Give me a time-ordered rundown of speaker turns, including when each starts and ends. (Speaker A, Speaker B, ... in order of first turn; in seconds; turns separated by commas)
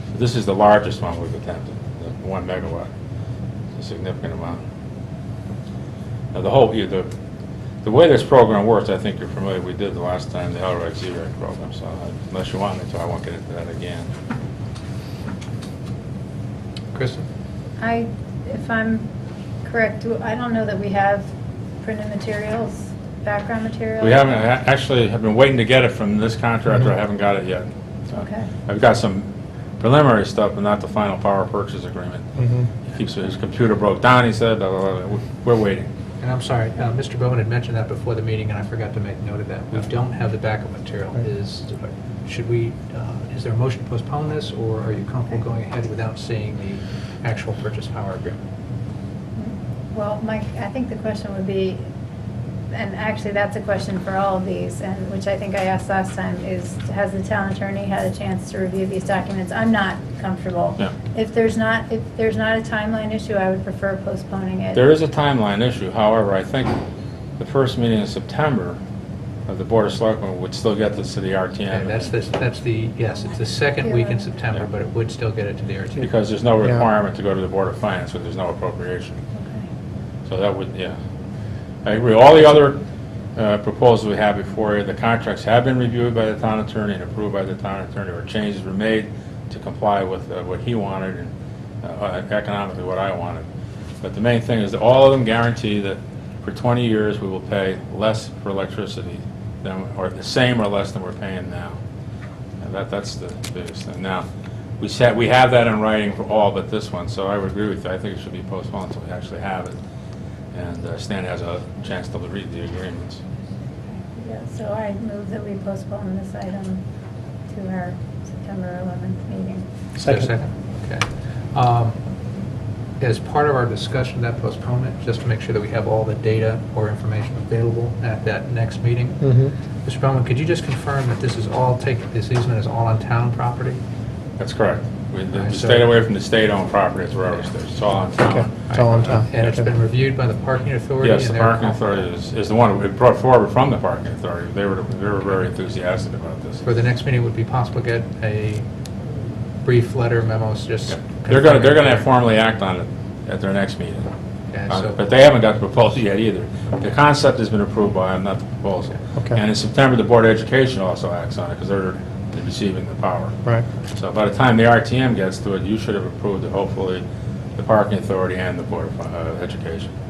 Speaker A: 0.1-2.9, Speaker A: 3.8-4.6, Speaker A: 6.3-7.1, Speaker A: 7.8-14.1, Speaker B: 16.9-17.3, Speaker C: 17.8-19.1, Speaker C: 19.6-21.3, Speaker C: 21.8-24.2, Speaker A: 24.0-32.3, Speaker C: 28.1-28.5, Speaker D: 32.4-32.7, Speaker A: 32.9-35.9, Speaker B: 36.2-48.4, Speaker C: 49.4-51.8, Speaker C: 52.7-64.8, Speaker A: 64.8-66.8, Speaker A: 67.4-68.8, Speaker A: 69.5-72.1, Speaker B: 71.7-76.1, Speaker C: 73.8-74.3, Speaker A: 76.0-79.2, Speaker C: 79.3-79.7, Speaker A: 80.3-81.0, Speaker A: 81.8-82.8, Speaker A: 83.4-91.3, Speaker A: 91.8-93.5, Speaker A: 94.0-101.8, Speaker A: 102.6-104.3, Speaker A: 104.8-109.8, Speaker A: 110.5-113.2, Speaker C: 114.1-116.8, Speaker C: 117.5-119.7, Speaker B: 120.0-122.0, Speaker D: 120.0-120.3, Speaker B: 123.0-129.2, Speaker D: 129.2-129.5, Speaker B: 129.8-133.8, Speaker A: 134.4-139.2, Speaker B: 135.3-135.9, Speaker D: 138.3-139.3, Speaker B: 138.7-142.0, Speaker A: 141.0-146.6, Speaker B: 146.6-148.7, Speaker B: 149.6-152.1, Speaker A: 151.3-154.1, Speaker B: 154.5-155.0, Speaker A: 154.7-163.4, Speaker A: 163.9-167.0, Speaker A: 167.6-169.9